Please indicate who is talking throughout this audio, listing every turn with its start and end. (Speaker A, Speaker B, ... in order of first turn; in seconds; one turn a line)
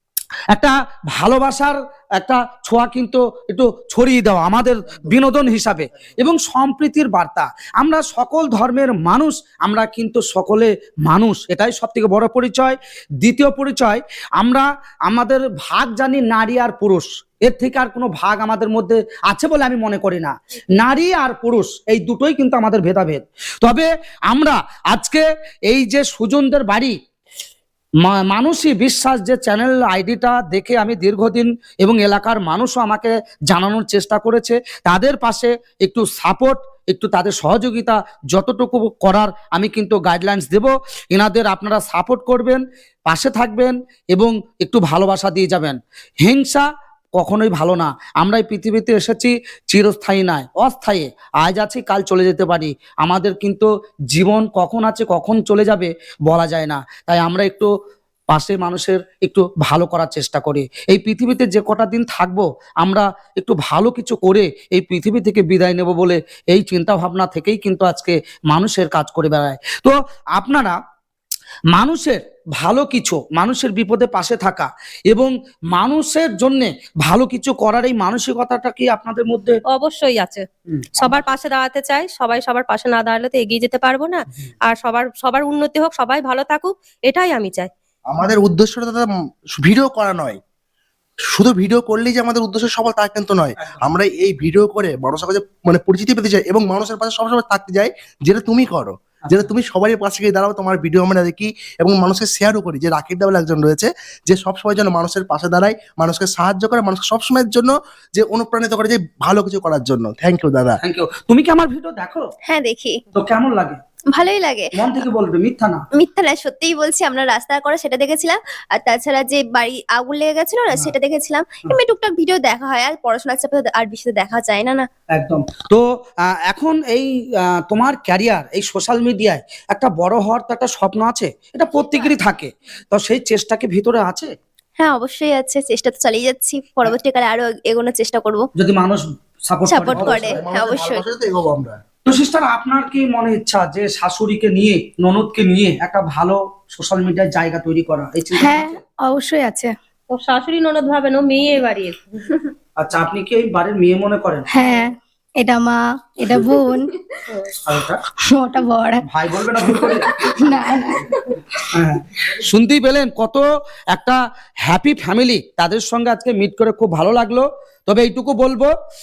Speaker A: 0.5-27.0
Speaker A: 28.0-46.7
Speaker A: 47.2-57.7
Speaker A: 58.3-70.8
Speaker A: 71.7-79.6
Speaker B: 79.7-80.5
Speaker A: 80.7-81.1
Speaker B: 81.0-87.7
Speaker C: 88.1-90.4
Speaker C: 91.3-110.8
Speaker A: 110.8-112.3
Speaker D: 112.5-113.0
Speaker A: 113.1-113.8
Speaker D: 114.1-115.0
Speaker A: 114.8-115.8
Speaker D: 116.0-124.9
Speaker A: 125.1-134.3
Speaker D: 134.8-138.5
Speaker A: 138.6-140.4
Speaker D: 139.7-141.0
Speaker C: 139.9-141.8
Speaker A: 142.1-148.8
Speaker E: 148.4-149.8
Speaker B: 150.1-152.5
Speaker A: 152.8-154.5
Speaker E: 154.5-156.9
Speaker D: 156.4-156.8
Speaker A: 157.6-158.0
Speaker E: 158.3-159.0
Speaker A: 159.1-160.6
Speaker E: 159.8-161.1
Speaker A: 161.7-168.7